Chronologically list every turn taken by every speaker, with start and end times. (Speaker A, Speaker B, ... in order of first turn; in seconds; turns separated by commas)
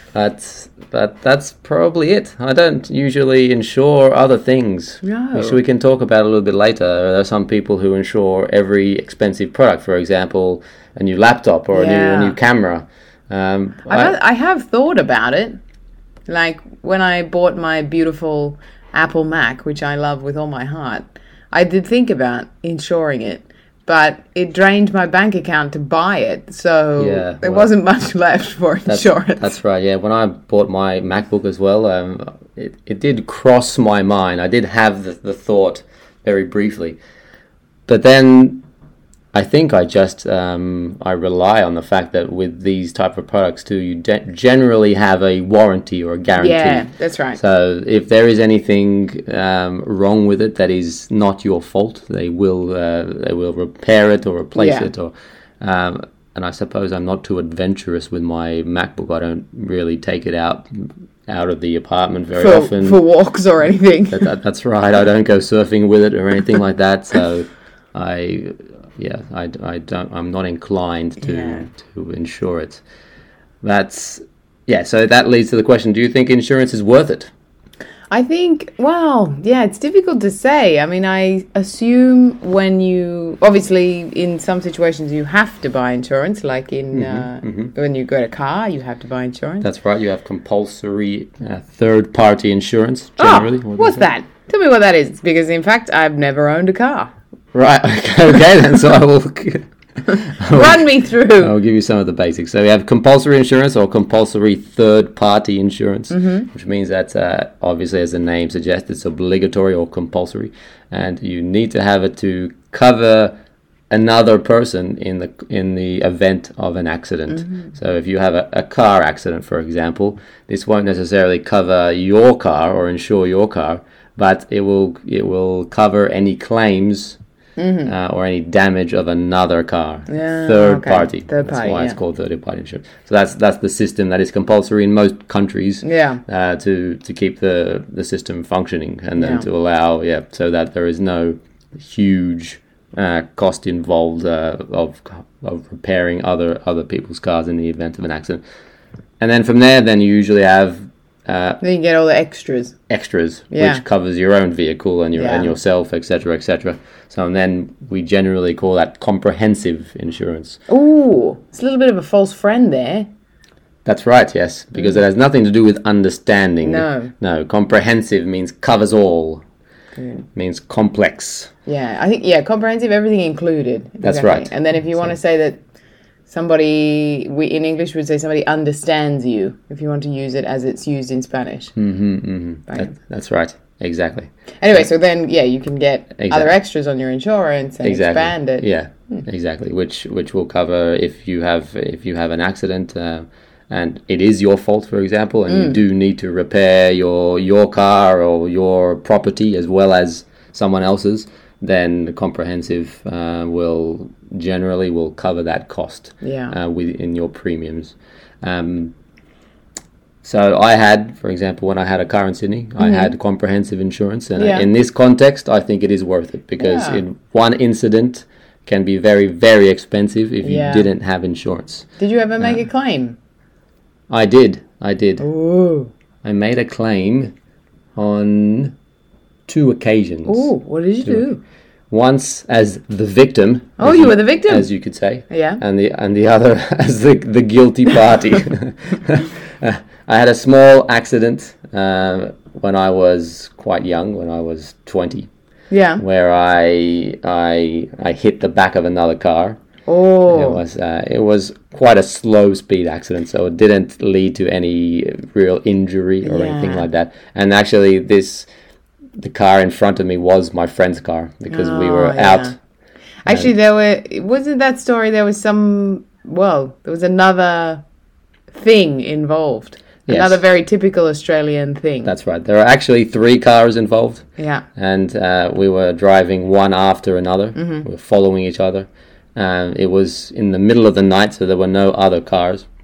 Speaker A: 0.1-14.1, Speaker B: 5.0-5.6, Speaker B: 11.7-12.4, Speaker B: 13.9-15.6, Speaker B: 16.3-29.6, Speaker A: 27.0-27.7, Speaker A: 28.9-37.0, Speaker A: 37.9-38.6, Speaker A: 39.3-63.0, Speaker B: 46.4-47.4, Speaker B: 54.5-54.9, Speaker B: 62.3-64.3, Speaker A: 64.1-72.8, Speaker B: 71.2-71.7, Speaker A: 73.6-77.3, Speaker B: 78.1-89.7, Speaker A: 86.9-87.7, Speaker A: 89.6-94.1, Speaker B: 93.2-97.1, Speaker A: 97.5-99.7, Speaker A: 100.4-100.8, Speaker B: 100.4-101.5, Speaker A: 101.4-113.3, Speaker B: 106.1-106.5, Speaker A: 113.9-127.2, Speaker B: 127.6-127.9, Speaker A: 127.8-148.4, Speaker B: 130.1-132.0, Speaker B: 135.8-136.2, Speaker B: 139.2-139.4, Speaker A: 149.2-151.6, Speaker B: 151.6-152.8, Speaker A: 152.9-160.6, Speaker B: 153.5-153.8, Speaker B: 155.1-155.6, Speaker B: 160.7-163.1, Speaker A: 163.8-169.4, Speaker B: 166.6-167.1, Speaker B: 170.0-170.2, Speaker A: 170.3-171.5, Speaker B: 171.7-175.6, Speaker A: 174.0-174.5, Speaker B: 176.3-181.7, Speaker A: 181.8-184.8, Speaker B: 184.6-189.2, Speaker A: 186.2-186.5, Speaker A: 187.8-208.9, Speaker B: 195.5-195.8, Speaker B: 206.2-206.5, Speaker A: 210.2-221.8, Speaker B: 212.8-213.1, Speaker B: 214.3-214.7, Speaker B: 216.6-217.0, Speaker B: 220.4-220.9, Speaker B: 222.0-223.2, Speaker A: 224.1-225.2, Speaker B: 225.2-225.9, Speaker A: 226.2-227.3, Speaker A: 227.9-228.7, Speaker A: 229.5-230.5, Speaker B: 230.2-231.4, Speaker A: 231.9-245.3, Speaker B: 233.8-234.7, Speaker B: 235.2-235.6, Speaker B: 245.7-246.0, Speaker A: 246.0-249.6, Speaker B: 249.9-250.6, Speaker A: 250.3-258.5, Speaker B: 256.2-256.9, Speaker A: 259.2-262.5, Speaker B: 261.5-262.5, Speaker B: 263.2-267.8, Speaker B: 268.5-272.1, Speaker A: 270.1-270.4, Speaker A: 272.0-274.2, Speaker B: 274.4-274.6, Speaker A: 274.8-282.6, Speaker B: 277.6-277.9